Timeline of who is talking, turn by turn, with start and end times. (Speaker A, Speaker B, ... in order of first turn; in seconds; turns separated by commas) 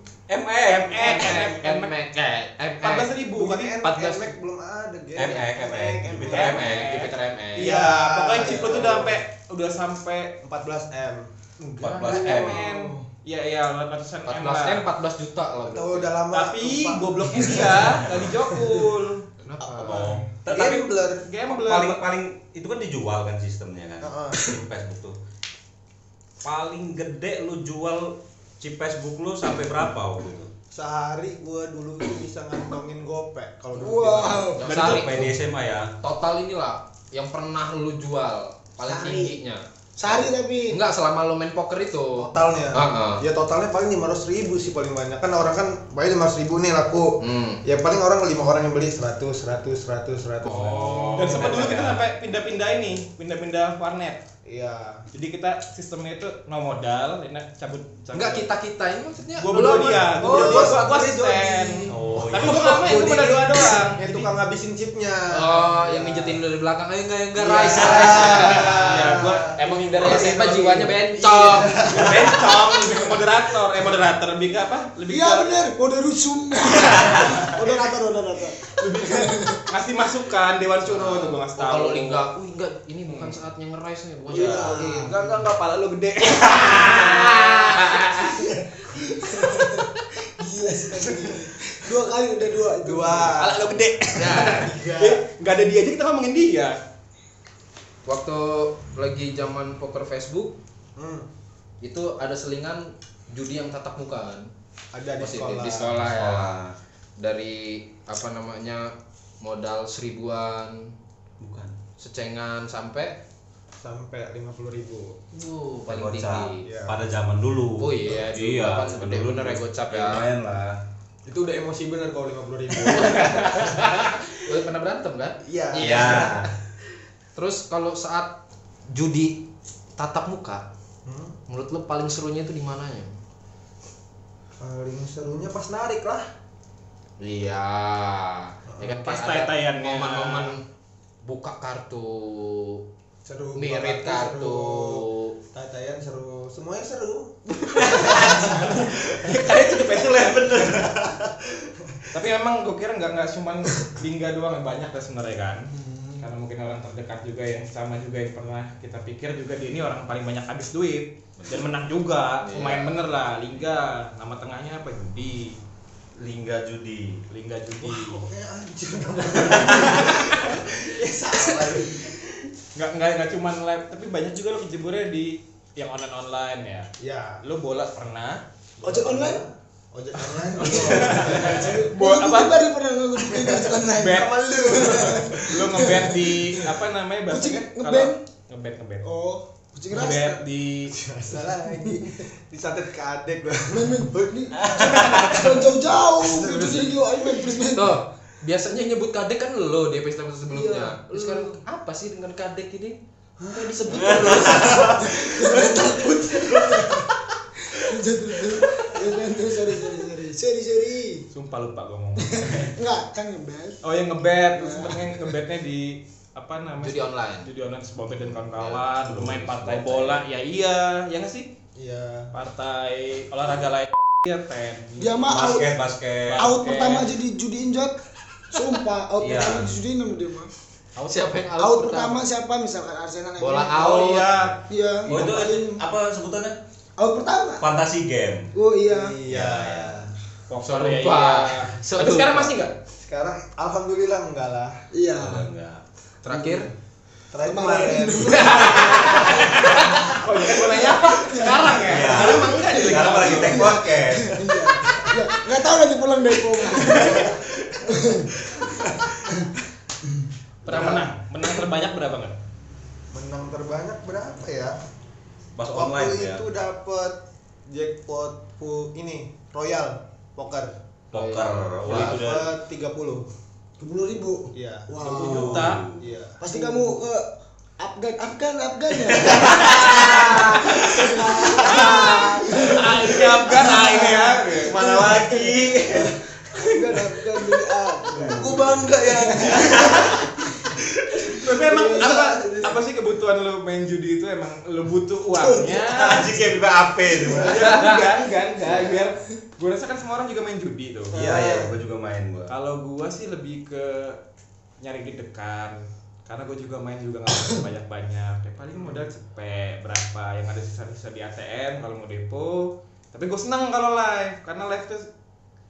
Speaker A: 0.3-1.3, Speaker B: 0.6-1.9, Speaker C: 0.9-3.1, Speaker B: 2.8-3.8, Speaker D: 3.3-6.6, Speaker C: 3.8-4.3, Speaker A: 5.2-6.7, Speaker C: 6.3-7.7, Speaker B: 6.3-10.4, Speaker D: 7.6-9.2, Speaker D: 10.4-11.3, Speaker B: 11.6-14.8, Speaker A: 11.8-12.6, Speaker D: 12.1-12.5, Speaker E: 12.3-13.0, Speaker C: 14.2-16.1, Speaker D: 15.7-18.2, Speaker B: 16.3-19.2, Speaker C: 19.4-20.2, Speaker A: 19.6-20.9, Speaker D: 20.5-21.3, Speaker B: 21.2-22.0, Speaker A: 21.5-25.1, Speaker D: 24.0-24.6, Speaker A: 26.4-30.5, Speaker D: 30.7-34.6, Speaker E: 33.7-34.6, Speaker C: 34.6-35.3, Speaker A: 34.6-35.9, Speaker C: 36.0-43.2, Speaker E: 38.9-39.3, Speaker E: 40.0-40.8, Speaker D: 42.2-51.5, Speaker C: 47.2-47.6, Speaker C: 50.4-52.0, Speaker A: 50.5-52.0, Speaker B: 51.1-54.2, Speaker D: 54.5-55.0, Speaker B: 55.1-58.4, Speaker C: 58.1-60.8, Speaker B: 59.4-64.0, Speaker D: 59.5-66.4, Speaker A: 61.9-62.8, Speaker C: 65.3-71.8, Speaker D: 67.3-73.0, Speaker A: 67.6-68.6, Speaker B: 68.1-69.6, Speaker B: 71.9-75.6, Speaker E: 75.1-79.6, Speaker A: 76.9-77.3, Speaker B: 78.8-82.2, Speaker C: 80.8-84.8, Speaker B: 83.1-83.3, Speaker E: 84.3-85.2, Speaker B: 84.3-88.4, Speaker D: 84.3-84.6, Speaker C: 86.7-88.0, Speaker E: 88.9-93.4, Speaker D: 91.0-91.4, Speaker D: 92.8-93.8, Speaker B: 93.4-96.8, Speaker C: 94.2-94.7, Speaker D: 94.3-95.2, Speaker C: 98.0-100.5, Speaker D: 101.0-101.2, Speaker C: 101.8-104.5, Speaker D: 104.9-106.0, Speaker C: 105.2-106.6, Speaker A: 106.0-106.7, Speaker C: 107.2-110.9, Speaker A: 111.4-111.7, Speaker C: 112.0-113.2, Speaker D: 113.8-115.2, Speaker C: 115.3-116.6, Speaker A: 115.9-120.8, Speaker D: 116.6-117.0, Speaker C: 117.8-120.3, Speaker D: 121.2-123.7, Speaker C: 122.8-126.5, Speaker D: 125.4-126.3, Speaker A: 125.8-126.5, Speaker C: 127.3-128.3, Speaker C: 128.9-129.4, Speaker C: 130.0-130.6, Speaker D: 131.1-131.3, Speaker C: 131.5-133.1, Speaker D: 134.6-136.2, Speaker C: 137.2-140.6, Speaker B: 139.0-140.5, Speaker C: 141.2-142.8, Speaker D: 143.2-147.3, Speaker C: 143.6-145.3, Speaker B: 147.7-150.8, Speaker A: 147.8-149.3, Speaker A: 150.0-151.7, Speaker B: 152.1-165.6, Speaker E: 155.8-156.2, Speaker C: 162.4-163.0, Speaker A: 166.2-167.2, Speaker B: 167.3-168.2, Speaker D: 167.8-172.3, Speaker A: 169.3-170.2, Speaker B: 172.7-176.9, Speaker D: 177.0-177.4, Speaker B: 177.4-178.4, Speaker D: 178.8-181.8, Speaker E: 178.8-179.4, Speaker B: 180.2-182.6, Speaker E: 180.6-186.6, Speaker B: 183.3-189.1, Speaker D: 184.1-186.0, Speaker E: 187.3-188.2, Speaker E: 189.0-190.4, Speaker B: 189.9-190.9, Speaker D: 190.9-195.6, Speaker E: 191.6-192.0, Speaker E: 193.7-198.0, Speaker A: 194.5-195.4, Speaker D: 196.2-197.0, Speaker C: 197.7-203.0, Speaker E: 200.5-201.6, Speaker D: 203.4-205.0, Speaker C: 203.5-204.7, Speaker E: 203.9-207.1, Speaker A: 203.9-205.5, Speaker D: 205.8-206.5, Speaker A: 206.5-206.8, Speaker E: 207.6-211.2, Speaker B: 211.3-212.7, Speaker E: 212.2-213.8, Speaker B: 213.8-221.5, Speaker E: 214.5-215.2, Speaker C: 216.8-217.5, Speaker A: 219.0-220.2, Speaker D: 221.8-222.3, Speaker B: 222.3-225.1, Speaker E: 225.0-225.7, Speaker A: 225.3-226.5, Speaker B: 226.2-227.1, Speaker E: 226.3-228.0, Speaker E: 228.5-230.5, Speaker A: 229.2-229.7, Speaker C: 231.0-232.2, Speaker E: 231.6-233.9, Speaker C: 233.4-234.4, Speaker B: 233.8-234.5, Speaker A: 234.1-236.6, Speaker E: 234.7-235.8, Speaker E: 237.0-237.7, Speaker A: 237.6-238.5, Speaker E: 238.5-239.1, Speaker D: 238.8-240.1, Speaker A: 239.2-240.0, Speaker B: 240.5-242.7, Speaker C: 240.6-242.5, Speaker D: 243.0-244.8, Speaker E: 244.9-245.5, Speaker A: 245.2-245.8, Speaker C: 246.2-246.7, Speaker E: 246.3-246.7, Speaker D: 247.3-249.6, Speaker E: 247.4-249.1, Speaker C: 248.2-250.2, Speaker B: 249.7-253.7, Speaker E: 250.7-257.3, Speaker A: 251.8-254.4, Speaker D: 256.9-257.4, Speaker A: 256.9-257.8, Speaker E: 257.9-258.3, Speaker B: 260.6-262.3, Speaker D: 260.7-261.1, Speaker D: 263.1-264.8, Speaker A: 265.6-266.4, Speaker D: 265.7-270.8, Speaker A: 271.1-272.5, Speaker C: 271.1-272.2, Speaker D: 271.8-273.2, Speaker E: 273.8-275.8, Speaker D: 274.5-276.9, Speaker B: 275.0-275.9, Speaker A: 275.1-276.1, Speaker E: 276.4-290.1, Speaker A: 279.1-282.2, Speaker B: 279.7-280.7, Speaker D: 281.1-282.7, Speaker B: 281.5-284.8, Speaker A: 284.6-286.1, Speaker D: 284.8-285.2, Speaker D: 288.1-290.2, Speaker A: 289.6-290.1, Speaker E: 291.2-292.7, Speaker D: 291.3-292.8, Speaker B: 291.3-296.4, Speaker E: 295.4-295.9, Speaker A: 295.9-297.6, Speaker E: 297.2-298.1, Speaker D: 297.2-297.8, Speaker B: 297.4-301.1, Speaker C: 297.7-298.0, Speaker D: 301.1-301.7, Speaker A: 301.1-302.5, Speaker B: 302.5-304.2, Speaker B: 304.8-315.1, Speaker D: 308.7-309.1